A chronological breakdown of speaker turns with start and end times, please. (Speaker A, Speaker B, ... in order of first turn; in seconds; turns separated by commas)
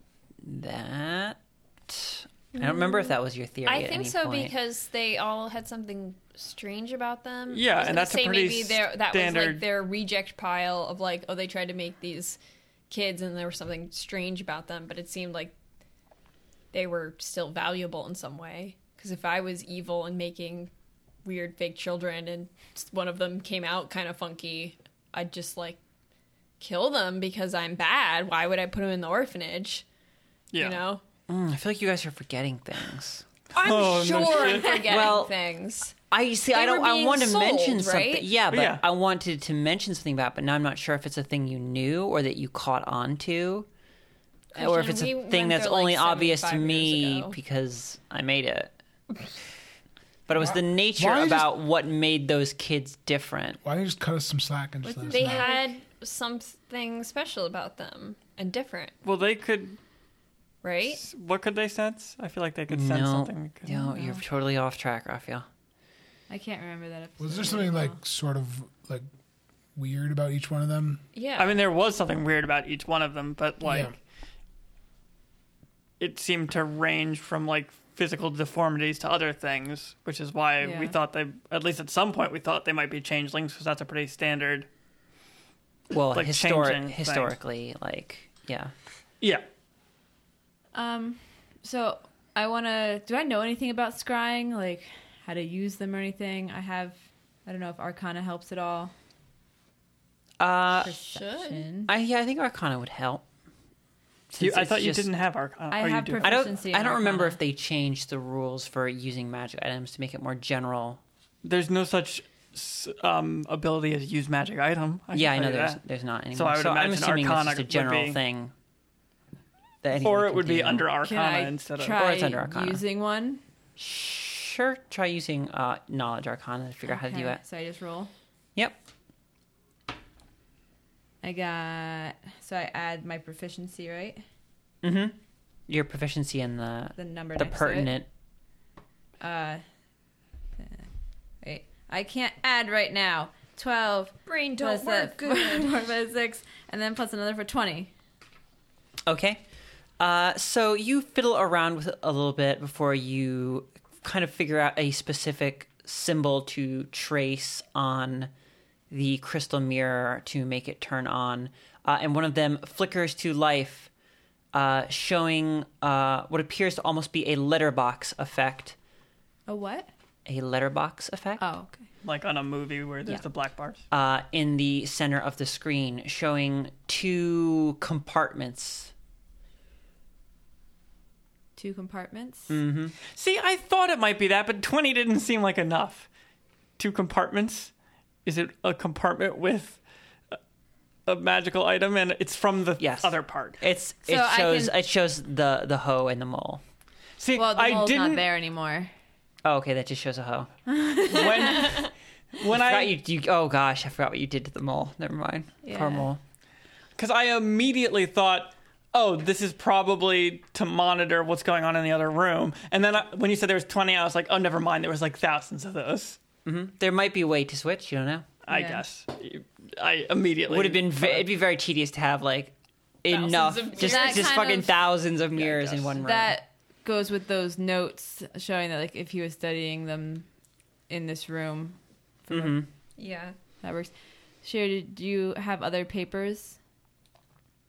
Speaker A: 0.4-4.5, Speaker B: 2.6-3.1, Speaker B: 3.6-12.4, Speaker C: 7.5-9.7, Speaker B: 12.9-15.5, Speaker B: 16.7-20.7, Speaker B: 21.2-25.8, Speaker B: 26.6-29.8, Speaker C: 30.5-30.8, Speaker B: 30.6-31.0, Speaker A: 31.3-33.2, Speaker B: 33.5-36.0, Speaker C: 33.5-34.9, Speaker A: 34.4-35.3, Speaker A: 36.1-43.7, Speaker B: 36.5-38.3, Speaker C: 38.5-38.8, Speaker B: 44.5-47.4, Speaker A: 44.5-48.7, Speaker A: 50.3-53.6, Speaker D: 50.4-51.5, Speaker D: 53.6-55.5, Speaker E: 54.8-55.7, Speaker B: 55.1-58.9, Speaker C: 59.0-59.8, Speaker B: 60.6-61.0, Speaker C: 60.9-63.8, Speaker A: 62.7-65.5, Speaker E: 63.7-64.2, Speaker E: 66.3-68.0, Speaker D: 67.2-69.0, Speaker D: 69.7-71.0, Speaker B: 71.1-71.6, Speaker C: 71.4-74.0, Speaker D: 73.6-73.9, Speaker C: 76.0-84.7, Speaker E: 80.6-81.0, Speaker A: 85.9-88.7, Speaker C: 86.1-87.3, Speaker E: 90.7-98.9, Speaker A: 100.4-100.9, Speaker E: 100.7-101.9, Speaker B: 101.0-101.7, Speaker A: 101.9-103.2, Speaker A: 104.3-105.1, Speaker C: 104.4-106.4, Speaker E: 105.7-107.4, Speaker A: 106.2-111.0, Speaker C: 111.4-115.8, Speaker A: 115.1-118.5, Speaker C: 116.3-118.2, Speaker A: 119.8-120.9, Speaker C: 120.0-122.0, Speaker E: 121.0-123.4, Speaker A: 121.9-122.8, Speaker A: 123.8-127.4, Speaker E: 126.8-128.1, Speaker E: 131.2-134.2, Speaker A: 134.8-135.2, Speaker A: 135.7-138.1, Speaker E: 137.0-137.9, Speaker E: 139.2-139.6, Speaker E: 140.6-140.8, Speaker E: 141.4-147.9, Speaker B: 144.3-145.8, Speaker A: 149.1-149.4, Speaker A: 150.0-158.3, Speaker A: 158.9-163.9, Speaker A: 164.5-168.8, Speaker E: 169.5-169.9, Speaker A: 170.2-171.4, Speaker E: 171.4-171.8, Speaker C: 172.0-173.8, Speaker A: 173.9-178.9, Speaker E: 181.6-182.6, Speaker A: 182.5-182.9, Speaker C: 183.1-186.1, Speaker C: 186.8-187.7, Speaker C: 188.2-189.8, Speaker C: 191.1-193.6, Speaker A: 192.8-196.6, Speaker E: 194.1-194.7, Speaker C: 197.2-198.3, Speaker E: 197.3-198.9, Speaker A: 199.4-200.5, Speaker E: 200.7-201.8, Speaker C: 201.0-202.9, Speaker A: 202.5-206.2, Speaker E: 205.6-206.1, Speaker C: 207.0-216.2, Speaker A: 216.4-218.3, Speaker C: 218.4-221.3, Speaker E: 218.5-218.8, Speaker A: 220.5-226.4, Speaker B: 223.1-224.5, Speaker E: 223.8-224.8, Speaker C: 225.3-225.9, Speaker E: 226.0-230.3, Speaker E: 230.9-232.6, Speaker A: 232.3-232.7, Speaker B: 233.0-233.3, Speaker E: 233.6-236.6